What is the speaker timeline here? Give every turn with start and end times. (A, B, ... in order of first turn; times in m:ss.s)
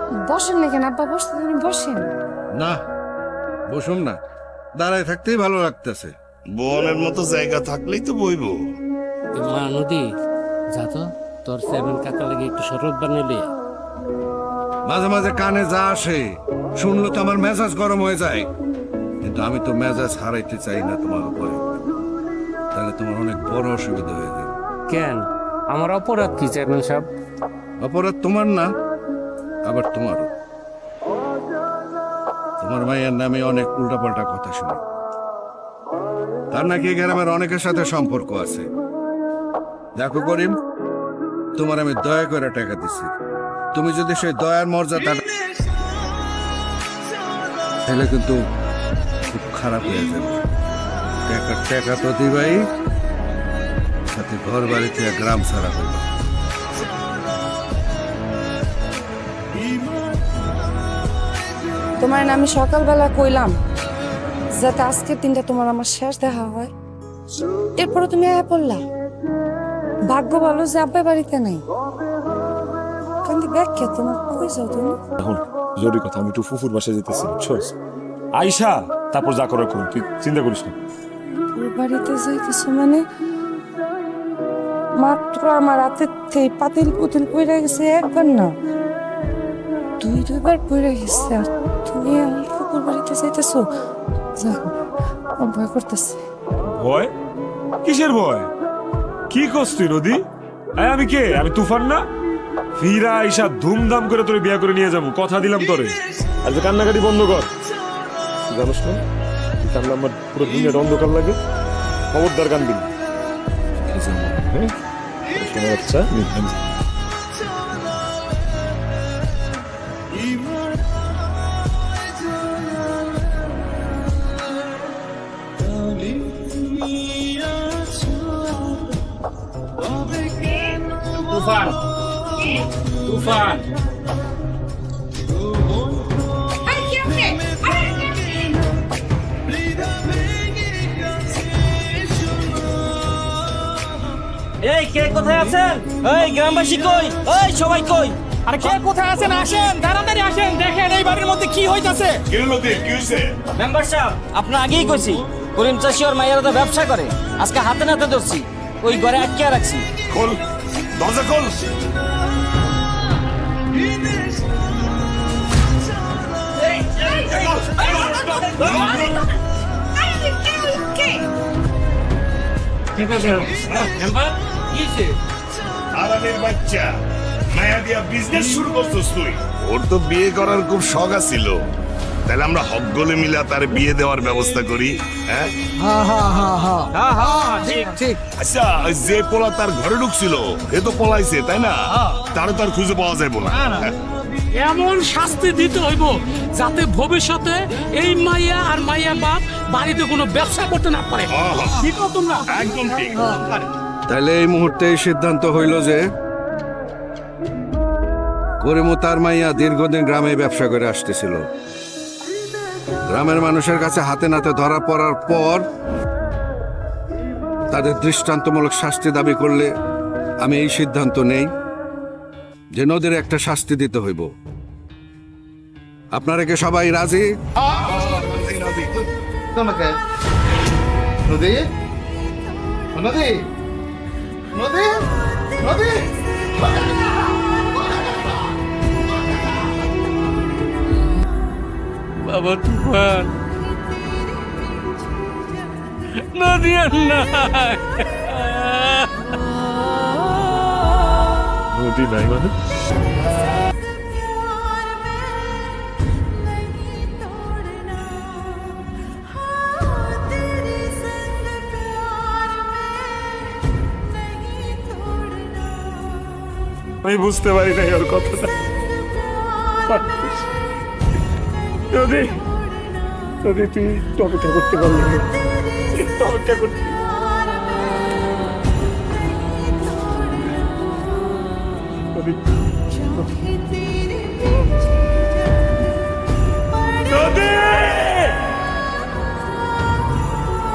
0:00.3-0:02.1 A
0:03.7-0:04.2 B
0:04.8-0:06.1 B
0:06.6-0:08.6 C
0:09.3-0:10.1 D
0:10.7-0:13.5 D
0:14.9-0:16.2 B
0:16.8-0:18.5 B
0:19.2-0:21.9 B
0:22.7-0:24.6 B
0:24.9-0:27.1 D
0:27.8-0:28.7 B
0:29.6-0:30.3 B
0:32.6-0:34.8 B
0:36.5-0:38.7 B
0:40.0-0:40.6 B
0:41.6-0:43.1 B
0:43.7-0:45.2 B
0:47.9-0:48.4 B
0:49.3-0:50.4 B
0:51.3-0:52.6 B
0:54.1-0:56.1 B
1:02.0-1:03.6 A
1:04.6-1:06.7 A
1:07.8-1:08.8 A
1:10.1-1:11.6 A
1:13.2-1:15.0 A
1:15.2-1:17.8 E
1:18.4-1:20.8 E
1:21.5-1:23.0 A
1:25.0-1:28.5 A
1:30.0-1:33.7 A
1:34.4-1:34.7 A
1:35.4-1:36.2 A
1:36.7-1:37.1 E
1:37.8-1:38.5 E
1:39.3-1:40.2 E
1:40.8-1:42.0 E
1:42.8-1:47.5 E
1:48.5-1:49.0 E
1:49.6-1:51.4 E
1:52.1-1:52.9 E
1:53.9-1:54.7 E
1:55.3-1:56.6 E
2:10.4-2:10.6 A
2:11.3-2:11.8 D
2:13.0-2:13.6 D
2:16.7-2:18.4 A
2:24.6-2:28.2 F
2:28.5-2:32.2 G
2:32.3-2:33.3 C
2:33.6-2:39.9 F
2:40.1-2:40.4 C
2:41.0-2:41.6 C
2:47.7-2:49.1 C
2:50.0-2:51.2 A
2:53.0-2:55.2 D
2:55.9-2:56.9 C
2:57.5-3:01.6 C
3:02.3-3:05.5 C
3:05.9-3:06.8 G
3:06.9-3:08.0 F
3:08.4-3:11.8 C
3:12.3-3:13.9 C
3:14.6-3:21.3 G
3:21.3-3:21.9 C
3:21.9-3:22.4 G
3:22.5-3:23.5 C
3:24.1-3:26.0 B
3:28.6-3:31.4 B
3:33.1-3:35.6 B
3:37.7-3:39.7 B
3:40.4-3:41.5 B
3:42.8-3:44.3 B
3:46.1-3:47.3 B
3:47.6-3:48.9 C
3:49.6-3:50.0 H
3:51.3-3:51.6 H
3:52.9-3:53.4 H
3:54.5-3:54.9 H
3:55.6-3:57.1 H
3:57.8-3:58.1 H
4:02.2-4:03.3 D
4:06.3-4:09.0 D
4:11.7-4:12.5 E
4:27.0-4:28.5 E
4:29.9-4:30.4 E
4:31.9-4:32.4 E
4:33.4-4:35.3 E
4:35.9-4:37.0 E
4:47.1-4:48.4 E